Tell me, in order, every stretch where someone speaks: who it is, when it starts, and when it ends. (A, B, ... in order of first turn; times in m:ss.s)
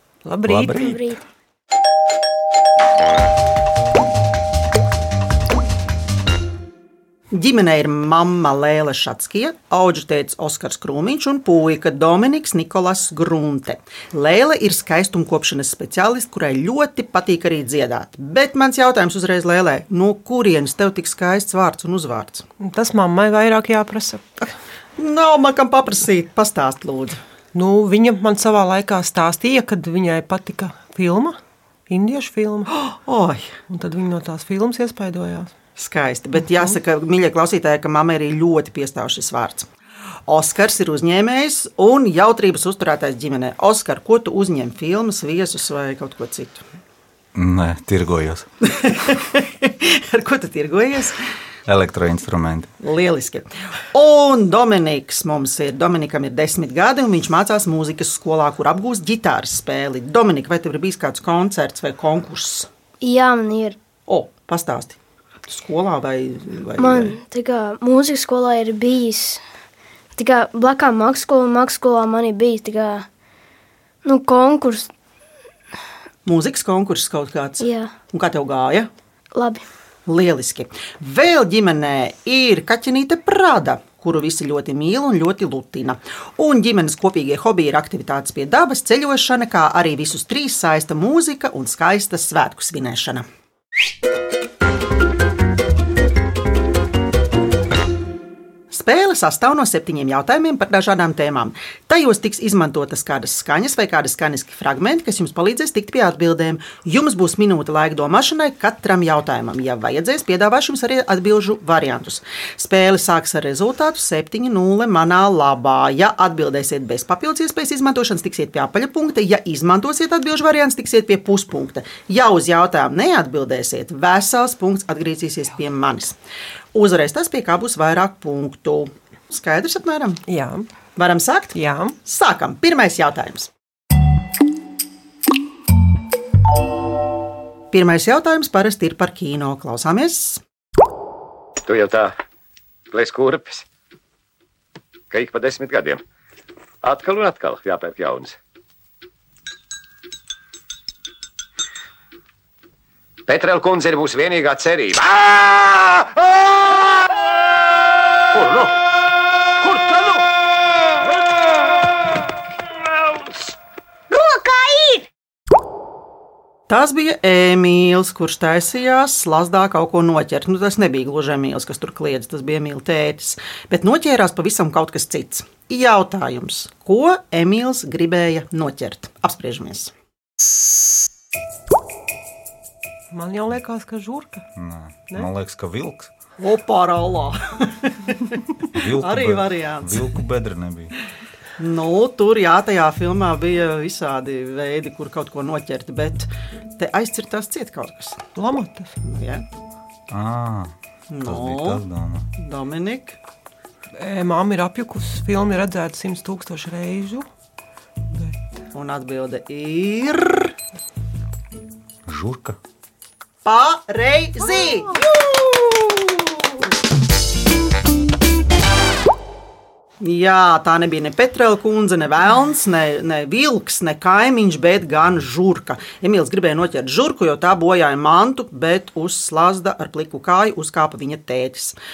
0:00.2-0:01.1 A
0:00.5-0:00.9 B
0:00.8-0:01.2 C
0:07.3-0:22.5 D
0:22.6-0:24.5 A
0:25.0-0:27.2 D
0:27.5-0:32.7 A
0:32.7-0:33.5 D
0:33.7-0:35.5 A
0:35.8-0:39.7 D
0:40.3-0:46.7 D
0:47.4-0:48.5 B
0:48.7-0:51.2 D
0:51.7-0:52.7 B
0:52.8-1:02.7 D
1:03.0-1:03.8 C
1:04.1-1:05.0 D
1:05.5-1:07.2 D
1:06.8-1:09.4 C
1:10.2-1:13.1 C
1:14.0-1:14.9 C
1:16.2-1:18.9 D
1:17.6-1:17.9 C
1:19.4-1:19.6 C
1:20.1-1:33.3 D
1:38.7-2:06.2 D
2:06.7-2:10.2 D
2:10.3-2:10.7 A
2:11.0-2:13.5 D
2:11.5-2:12.0 A
2:17.7-2:20.4 D
2:21.6-2:22.1 E
2:22.9-2:23.6 E
2:25.1-2:26.0 E
2:26.8-2:28.4 E
2:33.3-2:36.2 E
2:38.3-2:38.8 E
2:39.6-2:40.2 E
2:44.2-2:45.0 E
2:46.7-2:59.9 D
3:03.1-3:04.5 A
3:04.6-3:06.1 B
3:06.4-3:08.4 D
3:08.8-3:10.9 B
3:09.0-3:10.2 D
3:11.6-3:18.2 D
3:18.4-3:18.9 A
3:19.0-3:19.5 D
3:20.1-3:20.7 B
3:21.1-3:21.8 D
3:21.2-3:22.3 B
3:22.4-3:23.2 D
3:24.0-3:27.3 A
3:28.1-3:28.6 A
3:28.7-3:30.5 D
3:32.1-3:32.6 B
3:33.4-3:36.5 D
3:40.0-3:51.8 D